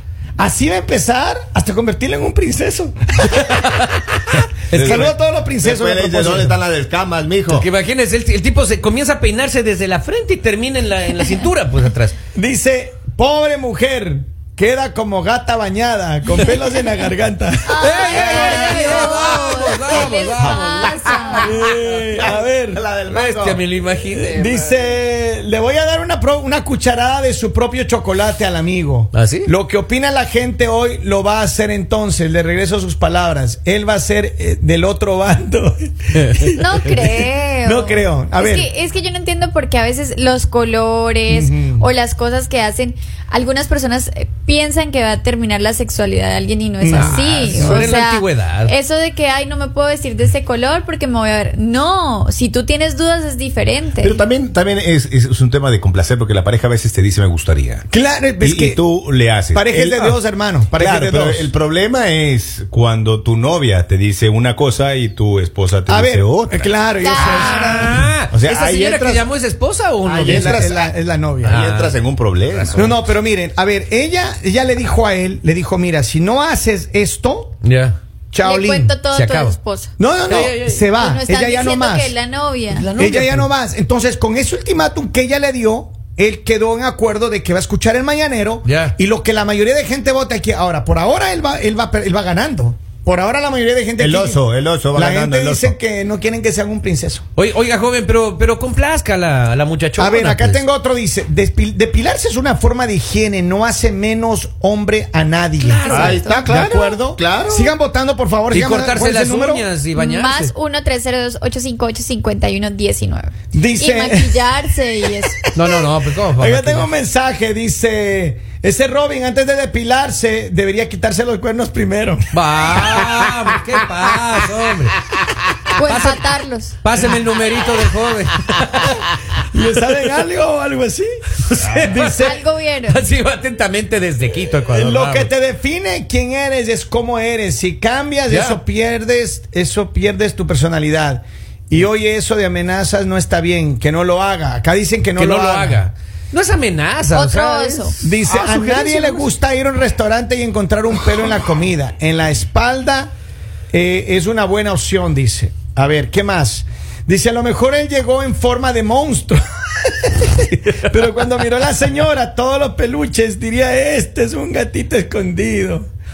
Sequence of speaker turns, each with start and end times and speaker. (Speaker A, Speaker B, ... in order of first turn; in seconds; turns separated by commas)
Speaker A: 0.4-3.4, Speaker B: 3.3-5.1, Speaker A: 4.7-6.6, Speaker C: 4.7-7.7, Speaker B: 7.5-12.1, Speaker A: 12.3-19.9, Speaker D: 17.7-21.6, Speaker B: 17.8-20.9, Speaker C: 20.4-21.6, Speaker A: 21.3-22.8, Speaker C: 22.2-23.6, Speaker B: 23.1-24.7, Speaker A: 24.2-38.7, Speaker B: 29.1-29.5, Speaker B: 36.1-36.5, Speaker D: 36.5-54.2, Speaker A: 41.3-41.9, Speaker A: 46.8-47.9, Speaker B: 46.9-48.7, Speaker C: 54.0-57.8, Speaker A: 57.9-58.8, Speaker C: 58.4-60.2, Speaker A: 59.5-61.5, Speaker C: 60.7-66.7, Speaker A: 65.8-68.1, Speaker D: 67.0-67.9, Speaker B: 67.2-70.6, Speaker C: 68.3-69.3, Speaker C: 70.0-73.0, Speaker A: 70.2-71.6, Speaker B: 71.4-72.9, Speaker A: 72.8-77.5, Speaker B: 77.6-78.0, Speaker A: 78.3-79.0, Speaker D: 78.4-79.9, Speaker B: 79.1-79.6, Speaker A: 80.0-82.2, Speaker B: 80.3-80.8, Speaker D: 80.9-82.9, Speaker B: 82.7-83.5, Speaker A: 83.0-94.4, Speaker B: 88.7-89.0, Speaker C: 94.0-95.8, Speaker A: 94.9-97.2, Speaker B: 97.3-100.6, Speaker A: 100.0-109.7, Speaker B: 105.6-106.1, Speaker C: 105.8-107.7, Speaker D: 105.9-106.4, Speaker B: 108.5-110.5, Speaker D: 110.0-115.4, Speaker A: 113.5-123.1, Speaker B: 115.5-116.9, Speaker B: 122.3-125.0, Speaker D: 125.7-126.8, Speaker B: 125.8-126.3, Speaker B: 126.8-129.2, Speaker A: 129.5-132.4, Speaker B: 131.4-135.3, Speaker D: 132.1-133.1, Speaker A: 134.7-145.8, Speaker B: 138.3-138.6, Speaker B: 145.2-149.1, Speaker D: 147.2-149.2, Speaker A: 148.0-153.1, Speaker A: 153.7-165.9